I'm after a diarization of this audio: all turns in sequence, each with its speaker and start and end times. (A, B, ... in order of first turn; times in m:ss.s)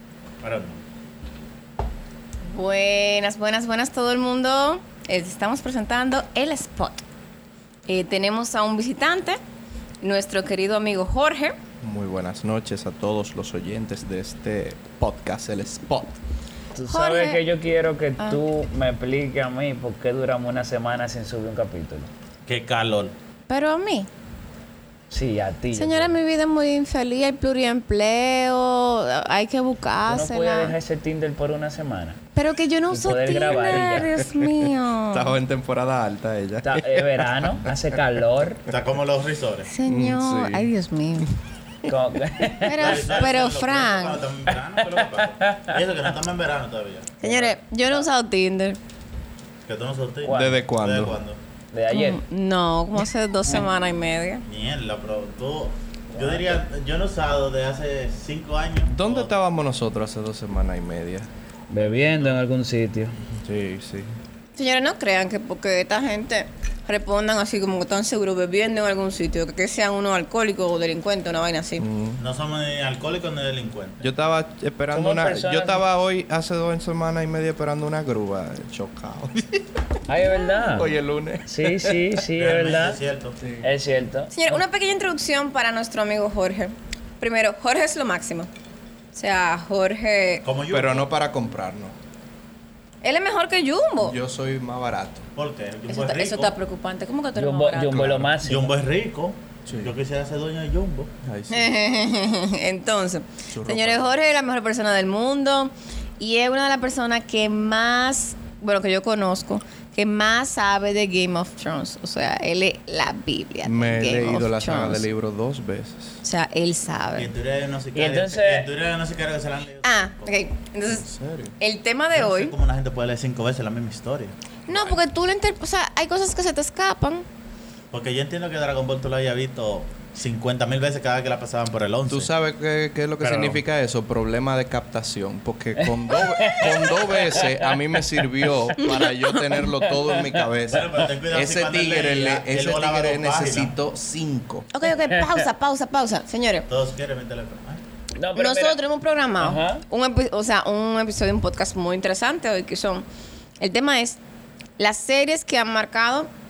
0:00.4-0:00.8 A
0:02.5-0:07.0 B
0:07.9-0:09.4 B
0:10.0-0:11.6 B
0:11.8-0:16.2 C
0:16.8-0:22.1 D
0:16.9-0:17.4 B
0:22.5-0:23.1 A
0:23.5-0:24.1 B
0:25.1-0:26.1 D
0:25.7-0:30.8 B
0:30.1-0:32.2 D
0:32.4-0:35.3 B
0:32.9-0:34.1 D
0:33.7-0:38.0 C
0:36.6-0:38.6 D
0:38.7-0:39.7 A
0:39.7-0:41.3 B
0:39.8-0:40.7 C
0:41.9-0:43.3 D
0:42.6-0:44.2 B
0:42.7-0:47.2 A
0:44.8-0:45.8 D
0:47.2-0:48.8 B
0:47.2-0:48.1 D
0:49.7-0:51.4 A
0:50.2-0:50.6 D
0:50.3-0:51.2 C
0:51.7-0:52.2 D
0:51.9-0:54.4 B
0:54.5-0:59.3 A
0:56.1-0:56.6 D
0:58.9-1:01.3 C
1:01.7-1:03.2 D
1:01.8-1:02.4 A
1:03.3-1:04.1 C
1:04.6-1:11.9 B
1:11.8-1:12.2 C
1:12.2-1:14.0 A
1:14.0-1:19.6 C
1:14.9-1:15.8 D
1:20.1-1:20.9 D
1:20.7-1:22.2 C
1:21.5-1:23.0 D
1:22.4-1:23.4 A
1:23.4-1:23.7 C
1:23.6-1:24.6 D
1:24.3-1:28.5 B
1:29.1-1:30.4 B
1:30.4-1:31.1 A
1:30.7-1:31.9 C
1:33.0-1:34.2 B
1:34.0-1:35.3 C
1:35.4-1:36.6 A
1:35.9-1:38.1 B
1:37.4-1:38.7 D
1:37.9-1:41.1 A
1:39.7-1:39.9 C
1:41.2-1:41.7 C
1:41.5-1:55.0 B
1:43.5-1:44.1 C
1:53.6-1:56.2 C
1:56.2-1:57.3 B
1:57.2-2:00.3 A
1:58.0-1:58.7 D
1:59.8-2:01.0 B
2:00.9-2:01.5 C
2:01.6-2:02.5 B
2:02.1-2:05.0 A
2:04.7-2:07.3 B
2:07.9-2:12.3 A
2:12.1-2:24.7 C
2:13.2-2:13.6 A
2:15.8-2:17.8 D
2:18.8-2:19.4 B
2:19.8-2:20.5 D
2:20.7-2:23.7 A
2:24.7-2:26.7 B
2:26.7-2:27.8 A
2:28.2-2:28.8 D
2:28.4-2:33.0 B
2:29.4-2:29.8 D
2:33.6-2:34.2 B
2:34.8-2:36.3 B